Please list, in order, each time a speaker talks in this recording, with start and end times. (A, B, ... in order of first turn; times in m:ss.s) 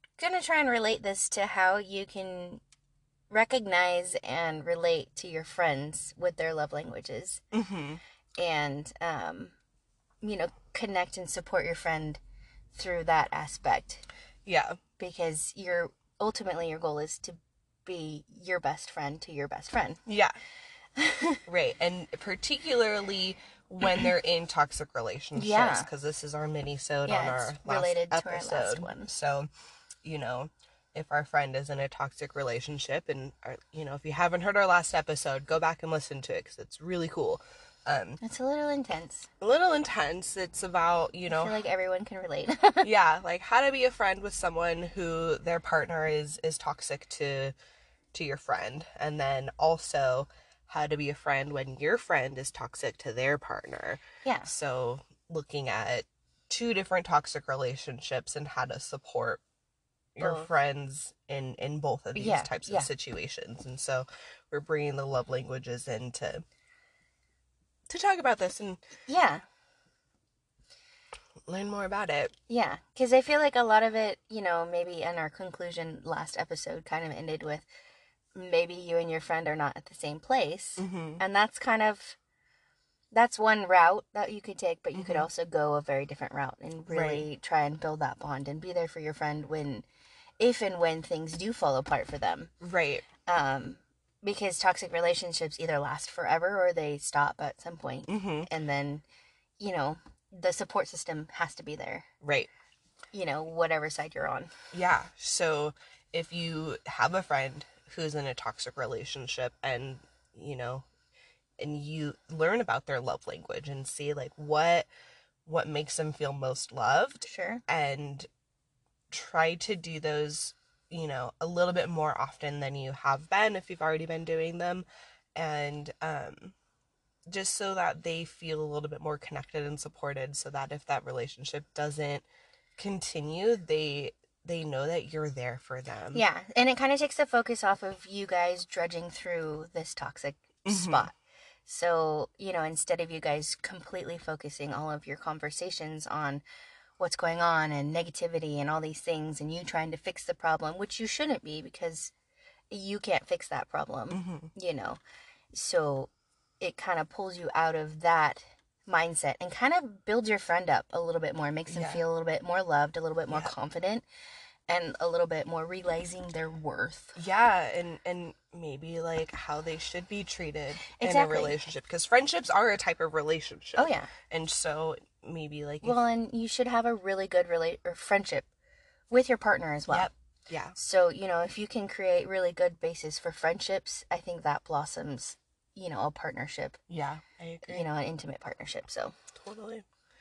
0:00.2-0:02.6 A
0:03.3-0:07.4 A
0:07.5-0:08.0 B
0:08.4-0:09.5 A
0:10.2-0:12.2 A
0:12.7-0:14.0 A
0:14.4-0:14.8 B
0:15.0-0:20.0 A
0:20.0-0:20.4 B
0:21.0-0:21.4 A
0:21.5-0:29.5 B
0:25.3-0:25.9 A
0:27.0-0:29.1 A
0:30.0-0:38.2 B
0:38.2-0:39.3 A
0:39.4-0:41.6 B
0:41.3-0:42.9 A
0:42.8-0:47.5 B
0:48.1-0:59.4 B
0:54.2-0:54.5 A
1:00.2-1:06.4 B
1:00.2-1:00.5 A
1:02.2-1:02.9 A
1:07.9-1:08.8 B
1:09.1-1:09.4 A
1:11.5-1:12.3 B
1:12.5-1:17.6 A
1:18.3-1:22.2 A
1:20.8-1:21.2 B
1:23.1-1:29.8 A
1:24.9-1:25.3 B
1:26.9-1:27.2 B
1:30.4-1:32.5 A
1:32.6-1:33.0 B
1:33.2-1:39.0 A
1:38.1-1:38.5 B
1:39.6-1:42.1 A
1:42.2-1:42.5 B
1:43.1-1:44.5 A
1:44.7-1:50.8 B
1:51.6-1:54.9 B
1:55.4-1:58.3 B
1:57.2-1:57.6 A
1:59.1-2:06.5 B
2:07.3-2:12.2 B
2:12.8-2:16.2 B
2:16.1-2:21.1 A
2:20.6-2:21.1 B
2:21.6-2:26.4 A
2:27.0-2:32.1 A
2:32.7-2:35.0 A
2:34.1-2:34.5 B
2:35.5-2:44.0 A
2:41.7-2:42.0 B
2:44.7-2:47.2 A
2:47.2-2:56.0 B
2:50.9-2:51.6 A
2:53.8-2:54.1 A
2:55.8-2:58.5 A
2:59.1-3:00.1 A
2:59.9-3:00.8 B
3:00.8-3:06.8 A
3:06.9-3:07.9 B
3:07.6-3:09.2 A
3:09.4-3:09.8 B